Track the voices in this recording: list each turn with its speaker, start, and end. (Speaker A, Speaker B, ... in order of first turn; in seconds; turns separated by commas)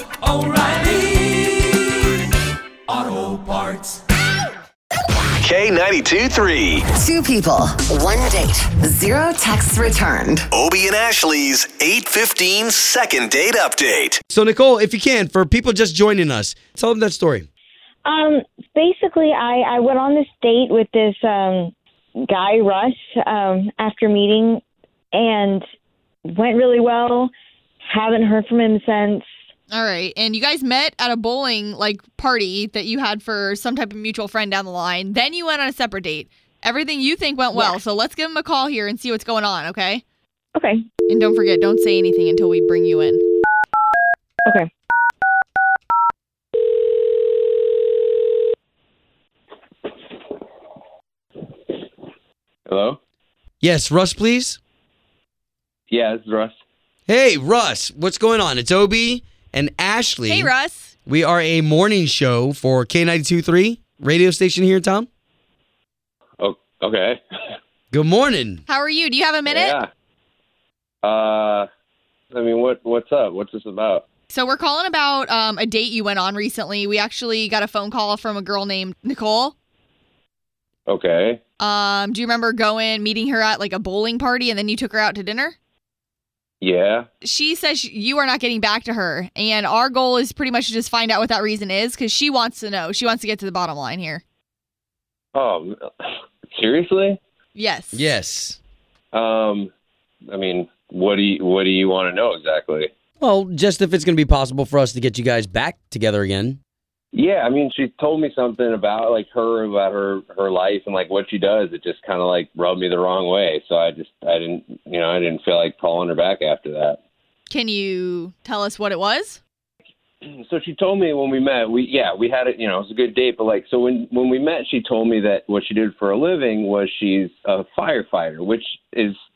Speaker A: 5.4-6.9, Speaker B: 6.9-10.5, Speaker A: 10.5-14.2, Speaker C: 14.3-17.5, Speaker D: 18.1-24.6, Speaker D: 25.1-25.6, Speaker D: 26.3-27.3, Speaker D: 27.8-29.3, Speaker E: 29.7-40.0, Speaker D: 40.5-40.8, Speaker E: 41.1-43.2, Speaker F: 52.7-53.0, Speaker C: 53.6-54.6, Speaker F: 55.9-56.5, Speaker C: 57.1-60.5, Speaker E: 60.2-60.9, Speaker C: 61.1-65.1, Speaker F: 66.4-67.2, Speaker C: 67.9-68.6, Speaker E: 68.7-69.8, Speaker F: 69.5-69.9, Speaker F: 71.0-71.7, Speaker F: 72.3-74.1, Speaker E: 74.3-79.5, Speaker F: 80.9-81.4, Speaker E: 81.6-85.5, Speaker F: 86.6-87.1, Speaker E: 87.2-94.2, Speaker F: 95.3-95.9, Speaker F: 96.5-97.2, Speaker E: 97.5-98.0, Speaker C: 97.9-98.6, Speaker F: 99.1-99.7, Speaker F: 100.3-102.9, Speaker C: 103.2-106.6, Speaker F: 107.1-117.0, Speaker E: 117.5-119.4, Speaker F: 120.5-129.2